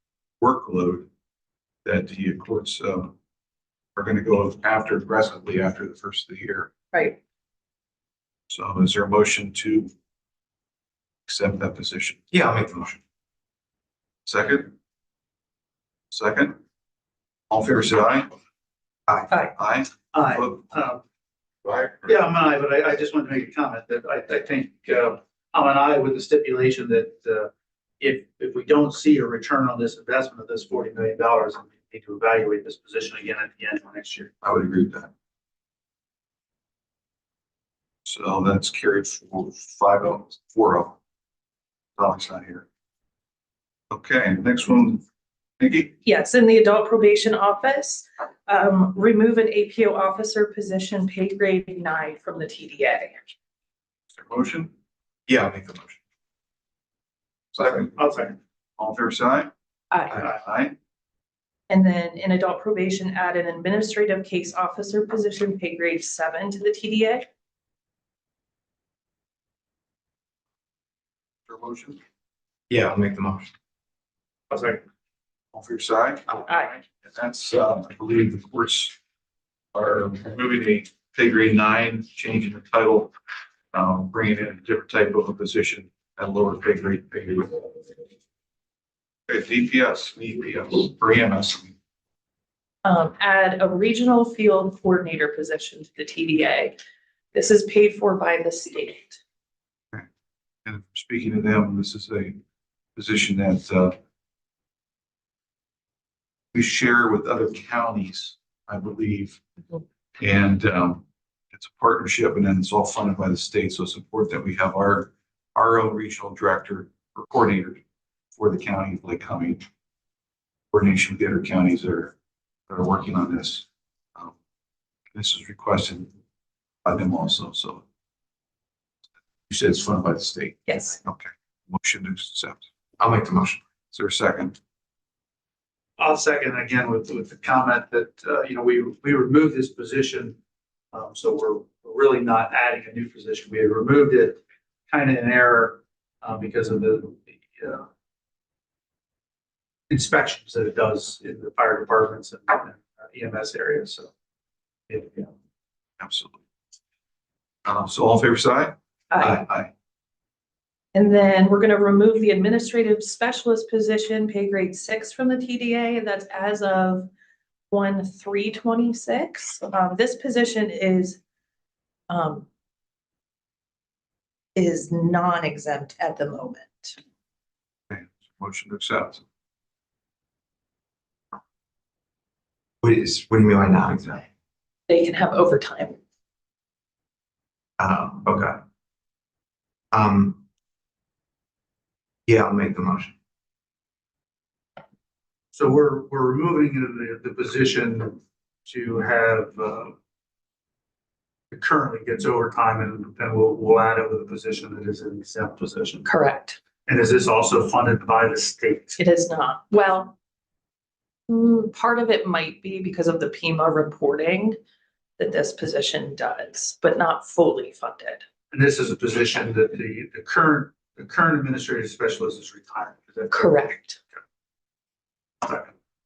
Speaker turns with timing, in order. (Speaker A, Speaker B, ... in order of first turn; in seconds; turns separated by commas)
Speaker A: 0.4-1.1, Speaker A: 1.8-3.1, Speaker A: 4.0-6.7, Speaker A: 8.5-9.9, Speaker A: 11.3-12.3, Speaker B: 12.3-13.0, Speaker A: 14.2-14.7, Speaker A: 16.1-16.6, Speaker A: 17.5-18.3, Speaker A: 19.5-20.6, Speaker C: 20.1-21.0, Speaker A: 21.6-22.1, Speaker C: 22.0-34.3, Speaker A: 34.4-35.1, Speaker A: 38.0-41.0, Speaker A: 42.0-42.6, Speaker A: 43.9-45.0, Speaker A: 45.6-45.9, Speaker D: 46.0-53.1, Speaker A: 54.2-54.7, Speaker B: 55.3-56.0, Speaker A: 57.5-58.0, Speaker C: 57.7-58.3, Speaker A: 58.8-59.5, Speaker D: 59.9-60.2, Speaker A: 60.1-60.8, Speaker D: 61.7-67.2, Speaker A: 71.5-72.0, Speaker B: 72.7-73.5, Speaker C: 74.5-74.8, Speaker A: 75.5-76.4, Speaker D: 76.4-76.8, Speaker A: 77.0-79.0, Speaker A: 79.7-83.1, Speaker A: 83.7-87.9, Speaker A: 89.3-91.7, Speaker D: 92.8-96.8, Speaker D: 97.3-99.2, Speaker A: 100.6-102.4, Speaker A: 103.0-104.0, Speaker A: 106.5-109.4, Speaker A: 110.2-117.8, Speaker A: 118.3-119.6, Speaker A: 120.7-122.1, Speaker A: 122.7-124.3, Speaker A: 125.1-126.1, Speaker A: 126.8-127.8, Speaker A: 129.5-132.7, Speaker D: 130.7-131.0, Speaker B: 133.0-133.6, Speaker A: 133.9-134.6, Speaker C: 136.0-140.4, Speaker C: 140.9-147.8, Speaker C: 149.9-154.1, Speaker C: 154.9-155.3, Speaker A: 156.0-156.4, Speaker A: 157.6-159.7, Speaker D: 159.1-159.4, Speaker D: 160.9-167.1, Speaker D: 167.7-171.2, Speaker D: 172.1-172.5, Speaker D: 174.6-177.0, Speaker A: 177.9-179.2, Speaker B: 182.8-184.2, Speaker D: 184.9-186.0, Speaker B: 187.8-188.6, Speaker B: 189.9-190.4, Speaker B: 192.3-193.1, Speaker C: 195.5-199.9, Speaker C: 201.5-206.1, Speaker D: 206.0-206.6, Speaker C: 206.9-209.0, Speaker D: 209.0-210.1, Speaker D: 211.3-214.6, Speaker D: 215.2-218.2, Speaker C: 218.5-223.6, Speaker D: 223.3-224.0